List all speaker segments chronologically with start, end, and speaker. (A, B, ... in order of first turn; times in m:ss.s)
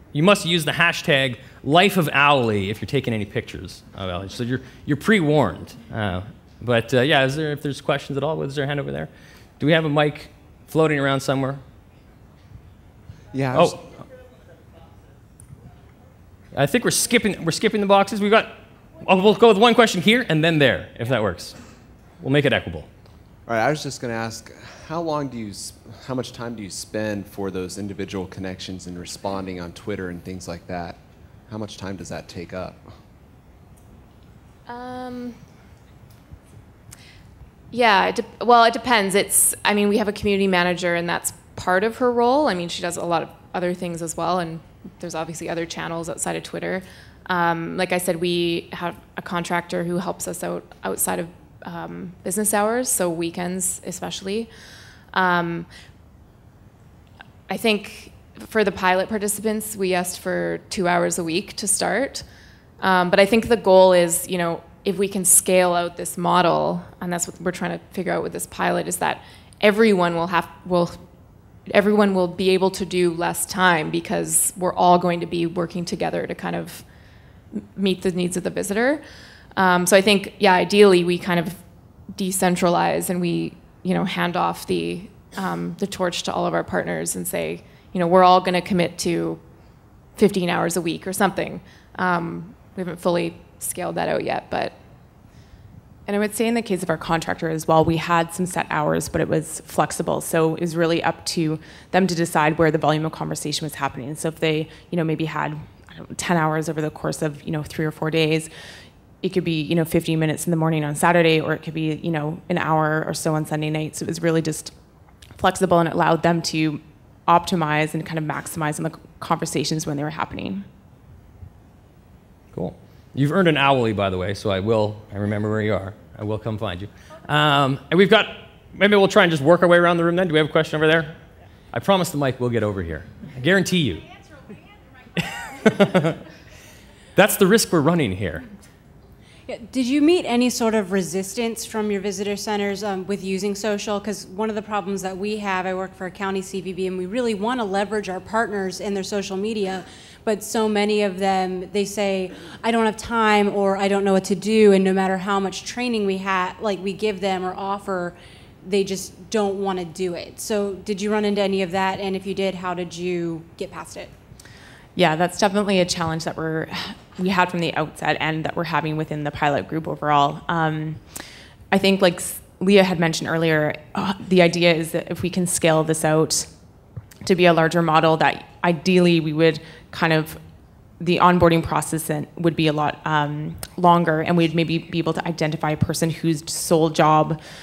0:00.1-0:11.6 A
0:13.3-0:13.8 B
0:13.5-0:13.8 A
0:16.5-0:21.6 A
0:22.2-0:22.9 A
0:23.5-0:32.9 B
0:34.7-0:35.4 C
0:37.7-0:54.5 C
0:55.1-0:55.7 C
0:57.5-1:02.2 C
1:02.8-1:11.0 C
1:11.7-1:16.8 C
1:17.5-1:19.0 C
1:19.6-1:21.6 C
1:22.1-1:29.4 C
1:30.2-1:34.8 C
1:36.1-1:48.5 D
1:49.2-1:54.7 D
1:55.4-2:00.6 D
2:02.5-2:11.2 A
2:11.7-2:14.1 A
2:15.2-2:16.2 A
2:17.2-2:18.5 A
2:19.5-2:44.1 E
2:45.0-2:51.1 D
2:51.7-2:56.5 D
2:57.2-3:00.4 D
3:01.0-3:07.4 D